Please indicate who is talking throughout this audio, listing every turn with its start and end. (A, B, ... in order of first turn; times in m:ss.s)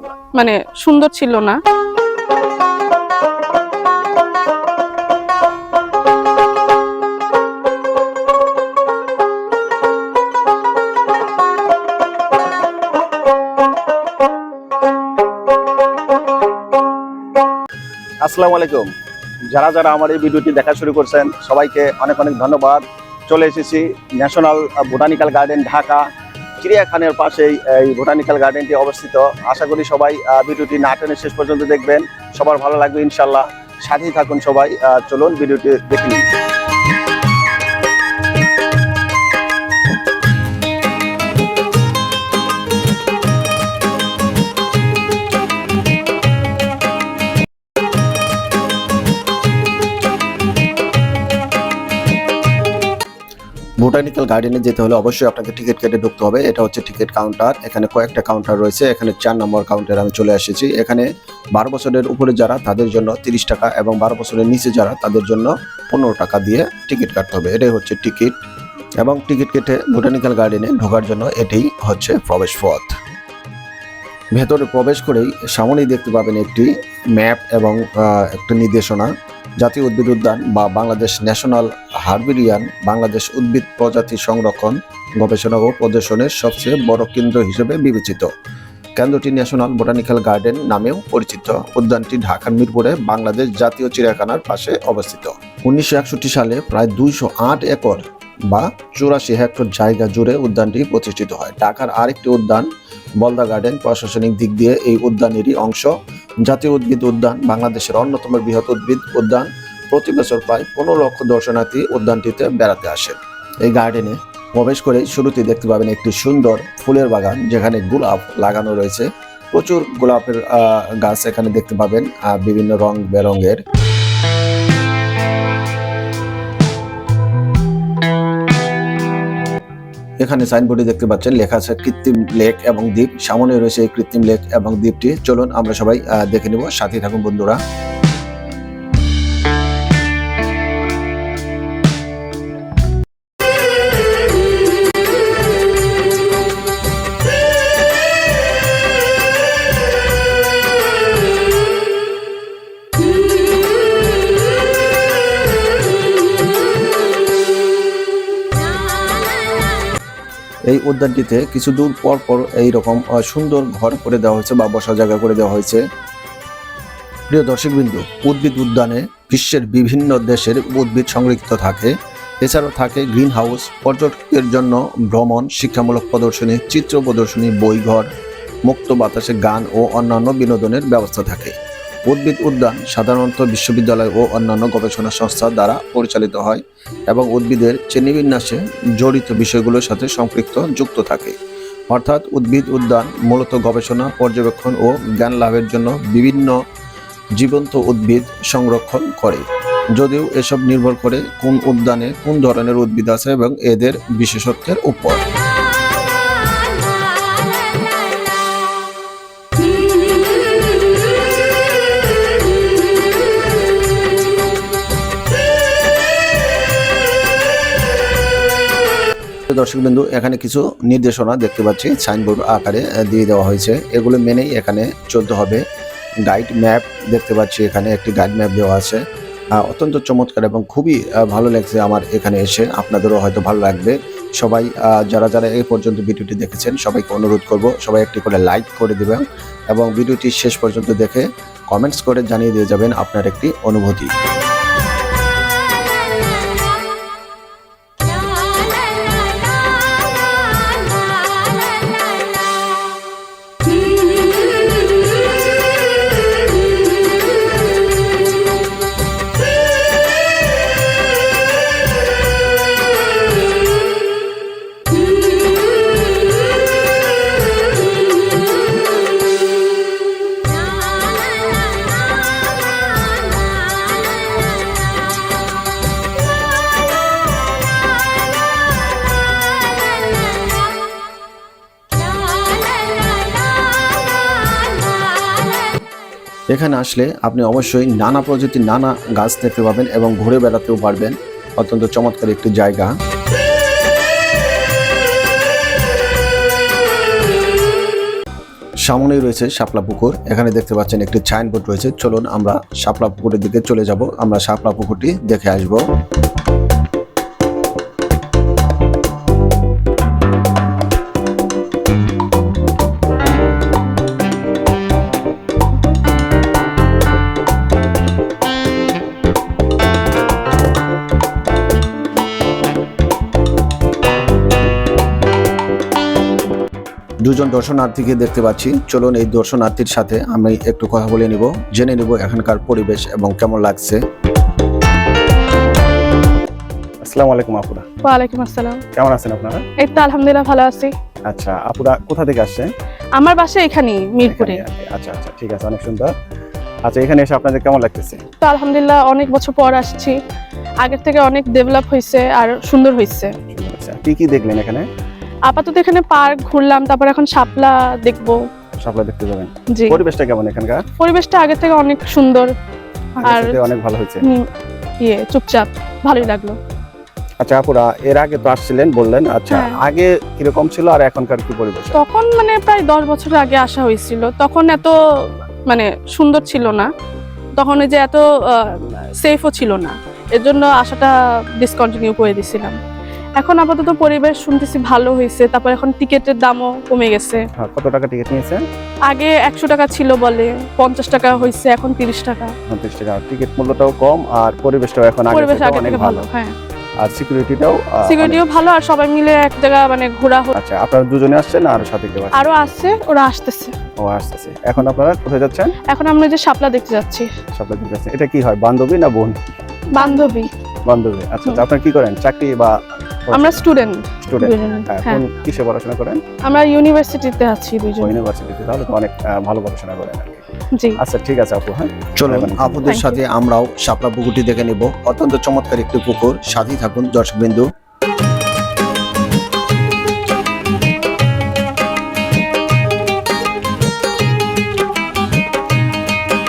0:00.4-0:01.6 A
0:18.3-0:18.9 B
0:19.5-0:26.1 B
0:26.6-0:36.2 B
0:53.8-1:08.4 B
1:09.0-1:12.9 B
1:14.3-1:28.3 B
1:29.0-1:42.7 B
1:43.2-1:45.9 B
1:46.4-2:03.6 B
2:10.2-2:17.6 B
2:40.7-2:45.8 B
2:47.3-2:58.1 B
2:58.7-3:01.6 B
3:02.1-3:11.4 B
3:11.9-3:16.6 B
3:17.4-3:19.4 B
3:20.0-3:25.2 B
3:39.5-3:45.6 B
3:46.3-3:49.0 B
3:49.6-4:04.1 B
4:46.5-4:52.9 B
4:58.9-5:05.8 B
5:27.2-5:34.0 B
5:37.0-5:37.9 C
5:38.0-5:38.8 A
5:39.0-5:39.6 C
5:39.8-5:40.9 A
5:41.3-5:42.7 C
5:43.2-5:44.6 A
5:44.2-5:46.1 C
5:46.9-5:48.2 C
5:48.4-5:50.2 A
5:50.8-5:53.3 A
5:53.5-5:54.9 C
5:55.5-5:58.4 A
5:58.8-6:00.8 C
5:59.7-6:00.0 A
6:01.0-6:02.5 A
6:03.2-6:03.7 A
6:03.2-6:04.3 C
6:05.0-6:06.6 A
6:07.4-6:12.0 C
6:09.5-6:09.8 A
6:11.9-6:15.0 A
6:15.7-6:16.9 A
6:17.6-6:22.8 A
6:23.4-6:27.4 A
6:27.6-6:28.6 C
6:29.1-6:32.5 A
6:32.7-6:36.2 C
6:35.3-6:36.5 A
6:37.0-6:38.4 C
6:38.1-6:40.5 A
6:40.6-6:42.5 C
6:42.3-6:43.7 A
6:44.0-6:45.7 C
6:45.9-6:47.3 A
6:47.5-6:49.4 C
6:49.9-6:50.5 A
6:50.9-6:52.8 C
6:53.3-6:53.6 C
6:53.3-6:55.2 A
6:54.2-6:56.2 C
6:56.4-6:58.2 A
6:58.0-7:00.4 C
7:00.7-7:01.0 A
7:01.0-7:02.8 C
7:02.2-7:07.7 B
7:02.8-7:03.2 A